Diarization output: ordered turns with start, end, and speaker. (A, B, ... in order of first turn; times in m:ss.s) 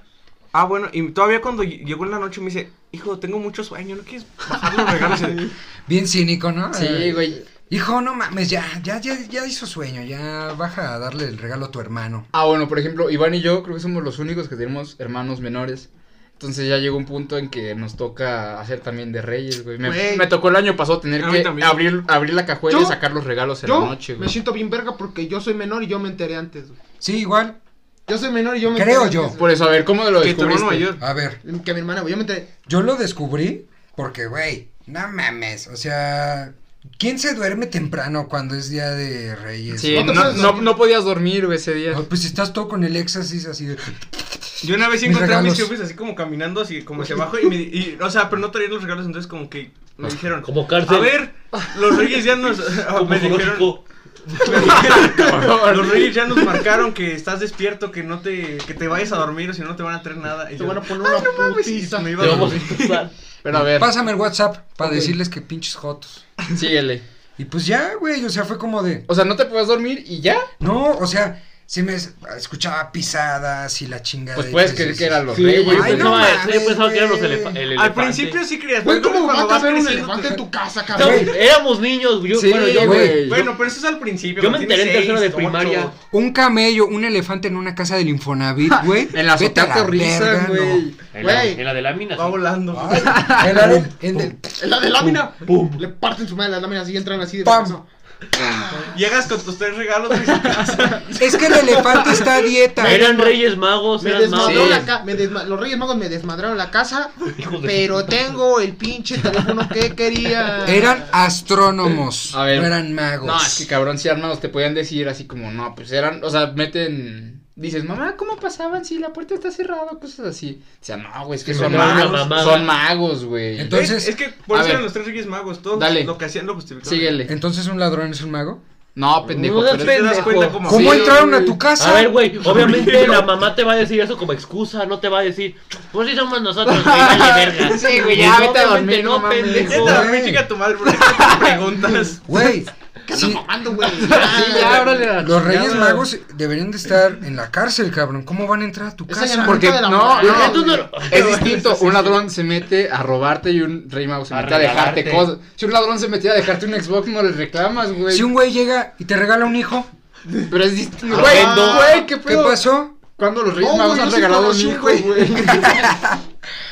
0:00.5-0:05.5 A
0:05.9-0:12.3 B
0:06.7-0:07.4 C
0:12.3-0:24.4 C
0:19.8-0:20.3 D
0:21.2-0:21.9 A
0:22.7-0:23.0 D
0:23.6-0:26.8 D
0:27.0-0:27.6 B
0:28.1-0:29.6 D
0:28.7-0:29.4 B
0:29.3-0:30.9 C
0:30.2-0:31.0 A
0:31.0-0:31.4 B
0:31.4-0:32.5 D
0:32.7-0:40.6 B
0:39.7-0:42.0 C
0:39.9-0:40.7 D
0:41.9-0:45.7 B
0:44.6-0:53.8 A
0:50.4-0:51.2 E
0:52.9-0:55.0 E
0:54.4-1:03.1 A
0:54.5-0:56.4 C
1:00.6-1:02.5 D
1:02.2-1:03.1 E
1:03.4-1:03.9 C
1:03.5-1:06.3 B
1:04.8-1:05.1 C
1:06.5-1:07.0 C
1:07.4-1:09.0 B
1:09.1-1:10.5 C
1:10.6-1:17.6 B
1:14.3-1:16.5 C
1:15.3-1:18.4 E
1:17.7-1:20.4 A
1:18.8-1:21.3 D
1:21.0-1:21.3 B
1:21.0-1:23.4 E
1:22.3-1:23.5 C
1:22.7-1:23.4 B
1:23.0-1:25.9 A
1:24.4-1:25.9 E
1:26.1-1:30.9 B
1:28.7-1:31.0 C
1:31.1-1:32.4 E
1:31.2-1:31.6 D
1:32.1-1:33.3 A
1:32.7-1:34.5 B
1:32.9-1:33.8 C
1:33.2-1:37.8 D
1:35.0-1:35.8 E
1:37.4-1:37.8 B
1:38.4-1:38.9 D
1:38.9-1:41.7 A
1:41.1-1:43.4 D
1:41.2-1:43.1 B
1:42.8-1:44.9 E
1:44.0-1:51.0 D
1:44.4-1:44.8 C
1:47.4-1:48.4 E
1:50.6-1:53.7 B
1:52.3-2:03.9 C
2:01.5-2:02.7 E
2:01.5-2:01.9 B
2:01.6-2:02.7 A
2:03.6-2:04.1 B
2:03.7-2:07.2 A
2:04.5-2:04.9 C
2:05.7-2:06.1 C
2:06.8-2:07.3 C
2:07.3-2:08.6 B
2:09.0-2:11.5 C
2:09.3-2:11.2 E
2:09.7-2:11.3 A
2:10.6-2:12.2 B
2:11.8-2:20.0 E
2:12.4-2:13.3 A
2:16.6-2:20.1 C
2:17.6-2:18.5 A
2:19.6-2:22.2 A
2:19.7-2:20.5 B
2:21.0-2:21.6 C
2:22.2-2:23.4 B
2:23.0-2:25.0 D
2:24.0-2:26.1 C
2:24.2-2:25.1 A
2:25.2-2:29.8 B
2:25.6-2:26.0 A
2:29.1-2:31.0 D
2:29.4-2:38.3 C
2:30.1-2:31.5 E
2:31.1-2:32.2 A
2:34.3-2:35.3 E
2:38.1-2:39.9 B
2:40.5-2:45.8 C
2:41.1-2:42.0 E
2:41.1-2:42.1 D
2:42.2-2:42.9 B
2:43.6-2:46.0 D
2:45.6-2:46.2 B